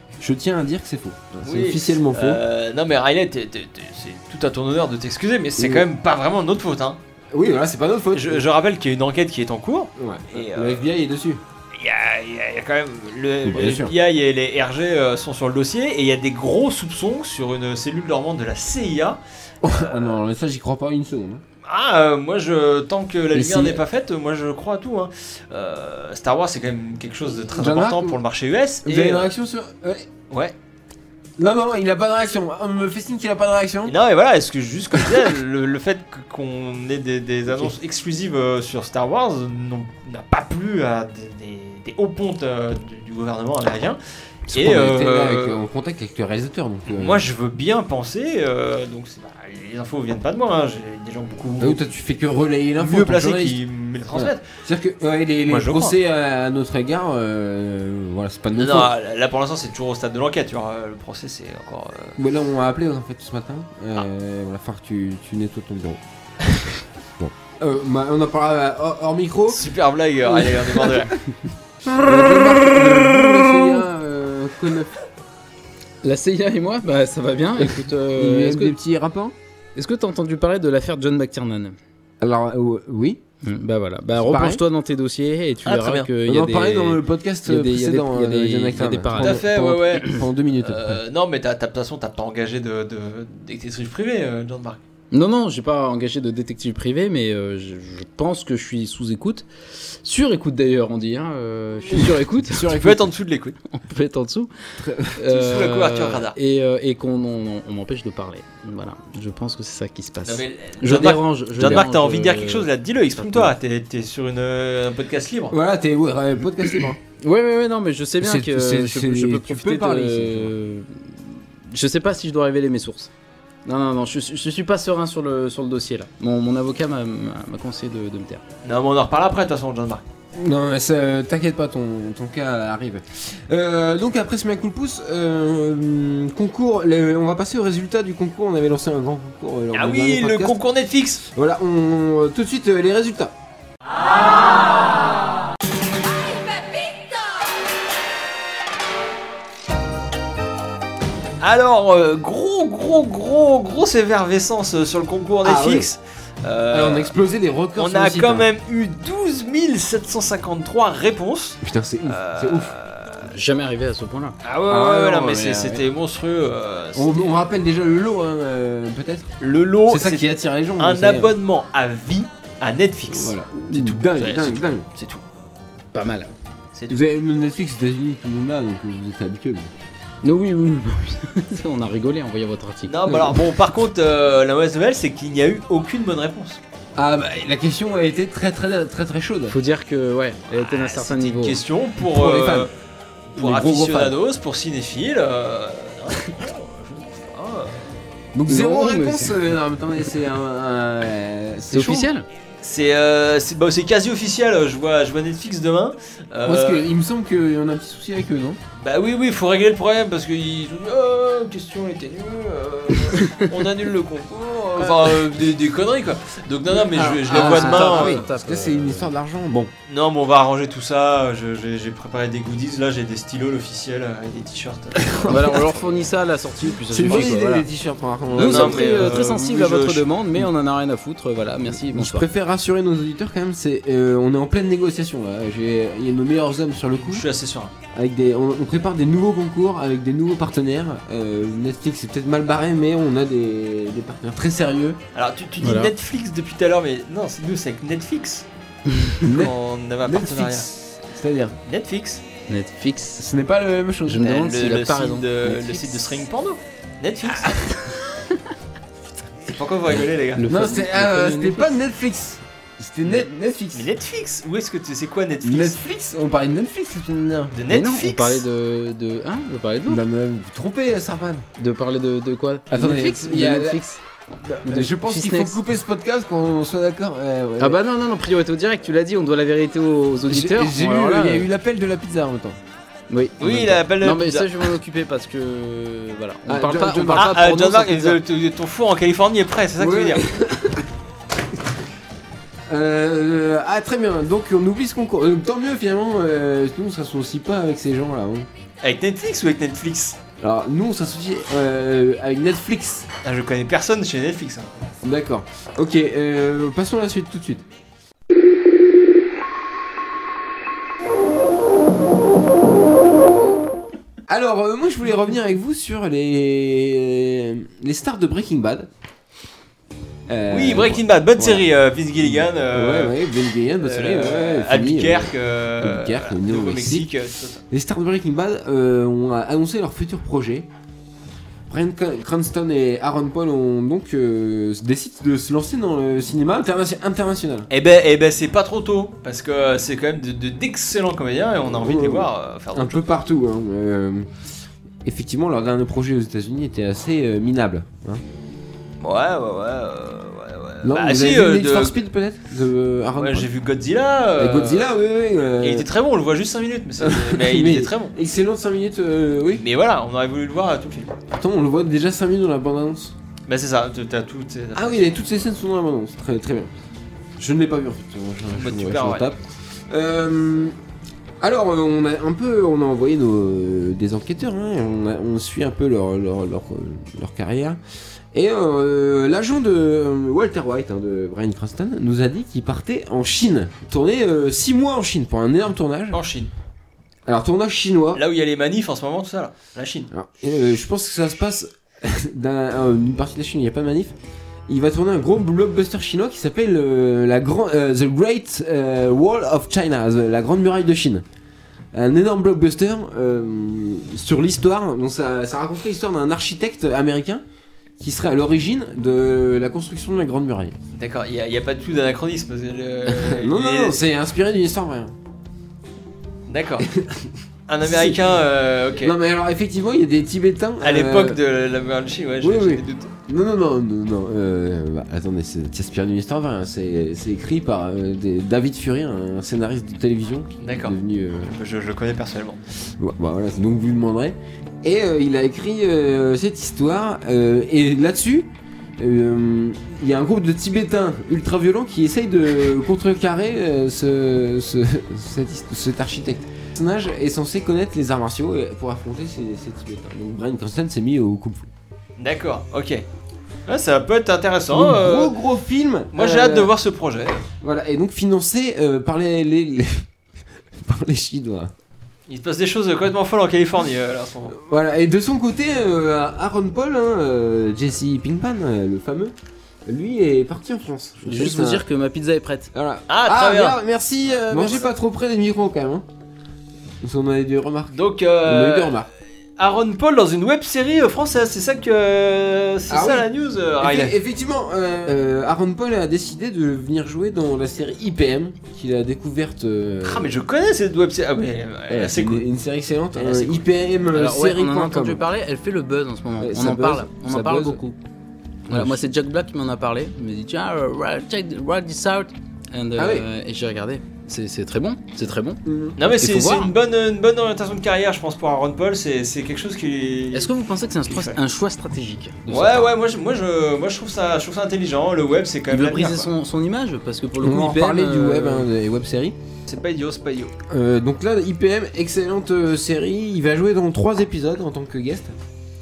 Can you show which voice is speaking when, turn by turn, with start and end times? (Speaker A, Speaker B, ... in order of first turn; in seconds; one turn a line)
Speaker A: 0.2-2.4
Speaker B: 1.4-7.0
Speaker A: 5.6-5.9
Speaker A: 7.3-8.4
Speaker B: 8.1-10.8
Speaker A: 10.0-11.4
Speaker B: 11.8-20.2
Speaker A: 13.4-13.9
Speaker A: 19.6-21.4
Speaker B: 21.7-29.3
Speaker A: 23.3-23.8
Speaker A: 27.5-28.2
Speaker A: 28.8-30.1
Speaker A: 31.4-33.9
Speaker B: 33.9-45.6
Speaker A: 35.0-35.3
Speaker A: 44.5-47.2
Speaker B: 46.9-51.8
Speaker A: 51.6-53.6
Speaker B: 52.8-54.4
Speaker A: 54.1-58.9
Speaker B: 55.5-56.0
Speaker B: 58.5-62.2
Speaker A: 62.2-66.0
Speaker A: 67.2-69.7
Speaker B: 69.5-71.2
Speaker A: 70.3-71.1
Speaker A: 71.9-74.9
Speaker C: 76.0-78.8
Speaker A: 77.6-79.3
Speaker C: 79.8-81.8
Speaker A: 82.2-83.2
Speaker C: 83.4-89.5
Speaker A: 84.2-84.6
Speaker B: 85.7-86.1
Speaker A: 86.2-91.0
Speaker B: 89.2-94.8
Speaker C: 95.1-102.8
Speaker B: 102.5-103.6
Speaker A: 102.5-103.1
Speaker C: 103.7-113.5
Speaker A: 104.8-105.2
Speaker B: 105.3-106.3
Speaker B: 110.2-115.6
Speaker A: 115.5-117.0
Speaker C: 117.2-123.1
Speaker A: 118.2-120.5
Speaker C: 123.7-128.4
Speaker B: 128.6-130.0
Speaker A: 130.3-140.6
Speaker B: 139.7-141.3
Speaker A: 141.3-143.3
Speaker B: 151.4-157.1
Speaker A: 155.4-155.9
Speaker A: 156.7-158.5
Speaker B: 157.8-163.3
Speaker A: 161.6-162.7
Speaker C: 163.3-164.4
Speaker B: 164.4-167.4
Speaker A: 164.7-165.8
Speaker A: 166.9-169.3
Speaker B: 169.4-175.2
Speaker A: 169.9-171.3
Speaker A: 173.1-174.9
Speaker C: 175.9-176.3
Speaker B: 176.7-177.0
Speaker A: 176.9-179.7
Speaker C: 180.2-183.1
Speaker B: 182.9-186.6
Speaker A: 183.1-183.4
Speaker A: 187.0-189.6
Speaker C: 189.5-191.6
Speaker B: 190.7-192.7
Speaker A: 192.0-192.7
Speaker B: 193.3-197.7
Speaker A: 193.4-194.2
Speaker A: 198.3-202.1
Speaker C: 198.5-199.5
Speaker C: 201.7-202.3
Speaker B: 202.6-206.9
Speaker A: 206.4-208.6
Speaker B: 208.8-218.2
Speaker A: 214.8-215.2
Speaker A: 216.7-219.7
Speaker C: 217.0-219.1
Speaker B: 219.9-225.7
Speaker A: 225.0-225.6
Speaker C: 225.3-227.7
Speaker A: 226.9-229.2
Speaker B: 227.1-227.3
Speaker B: 228.3-230.1
Speaker C: 228.3-232.3
Speaker A: 231.7-237.3
Speaker B: 237.1-237.7
Speaker A: 237.9-245.0
Speaker B: 245.1-248.5
Speaker C: 245.6-245.9
Speaker C: 248.9-249.2
Speaker B: 249.2-250.7
Speaker A: 249.2-251.6
Speaker B: 251.7-252.2
Speaker C: 252.5-253.2
Speaker A: 253.2-254.3
Speaker C: 254.1-255.3
Speaker B: 254.2-257.7
Speaker A: 255.4-255.8
Speaker A: 257.4-257.7
Speaker B: 259.5-260.5
Speaker C: 260.4-261.8
Speaker A: 260.5-263.9
Speaker B: 263.7-265.8
Speaker A: 265.4-267.6
Speaker B: 267.5-268.4
Speaker C: 267.7-270.0
Speaker A: 269.9-271.4
Speaker C: 271.6-274.0
Speaker A: 272.7-273.8
Speaker A: 274.4-277.8
Speaker C: 274.6-275.6
Speaker C: 277.6-281.5
Speaker A: 280.3-282.6
Speaker C: 283.1-288.2
Speaker B: 283.4-284.7
Speaker A: 286.5-288.1
Speaker B: 287.1-290.2
Speaker A: 289.8-290.9
Speaker A: 292.7-298.5
Speaker B: 298.8-300.2
Speaker A: 300.4-303.1
Speaker B: 303.2-304.7
Speaker A: 305.0-307.6
Speaker A: 314.3-318.9
Speaker A: 320.3-321.7
Speaker B: 320.5-327.6
Speaker A: 322.2-327.1
Speaker A: 327.7-330.7
Speaker A: 331.7-337.7
Speaker B: 337.7-343.1
Speaker A: 341.7-344.3
Speaker A: 345.1-348.2
Speaker B: 349.0-352.0
Speaker A: 350.8-353.5
Speaker B: 353.2-354.9
Speaker A: 354.4-355.9
Speaker B: 355.6-358.1
Speaker A: 357.0-359.6
Speaker B: 359.6-361.1
Speaker A: 361.3-363.1
Speaker B: 363.5-365.1
Speaker A: 364.8-366.7
Speaker A: 367.4-370.8
Speaker B: 368.5-369.3
Speaker A: 371.4-377.8
Speaker A: 378.3-386.2
Speaker B: 386.1-386.5
Speaker A: 387.3-388.2
Speaker B: 388.1-390.1
Speaker A: 390.1-394.1
Speaker A: 394.7-401.2
Speaker A: 401.9-407.4
Speaker A: 408.0-410.8
Speaker B: 410.9-414.0
Speaker A: 413.1-415.1
Speaker B: 416.5-416.9
Speaker A: 416.8-417.3
Speaker B: 417.7-419.1
Speaker A: 417.8-418.2
Speaker A: 419.0-421.4
Speaker B: 420.8-423.1
Speaker A: 422.4-431.6
Speaker B: 430.6-431.0
Speaker B: 431.5-432.6
Speaker A: 433.0-451.7
Speaker B: 452.2-453.0
Speaker B: 453.7-455.3
Speaker A: 454.7-456.7
Speaker B: 456.1-457.5
Speaker A: 457.6-460.1
Speaker A: 460.8-461.7
Speaker B: 462.3-464.6
Speaker A: 464.5-469.3
Speaker A: 469.9-471.8
Speaker C: 471.2-472.7
Speaker A: 472.7-476.1
Speaker B: 473.1-473.8
Speaker B: 474.4-474.9
Speaker A: 477.0-479.1
Speaker B: 477.9-479.1
Speaker B: 479.6-484.1
Speaker A: 482.9-483.3
Speaker A: 483.8-490.3
Speaker B: 490.0-492.5
Speaker A: 491.9-495.2
Speaker B: 493.1-493.6
Speaker C: 494.1-498.0
Speaker A: 496.4-497.8
Speaker C: 498.7-506.7
Speaker A: 498.7-499.1
Speaker A: 503.0-503.3
Speaker A: 505.6-506.0
Speaker B: 506.0-510.5
Speaker C: 510.3-512.9
Speaker B: 511.1-511.4
Speaker B: 512.5-516.3
Speaker C: 515.7-518.7
Speaker A: 517.4-519.4
Speaker B: 519.7-520.5
Speaker A: 520.7-525.4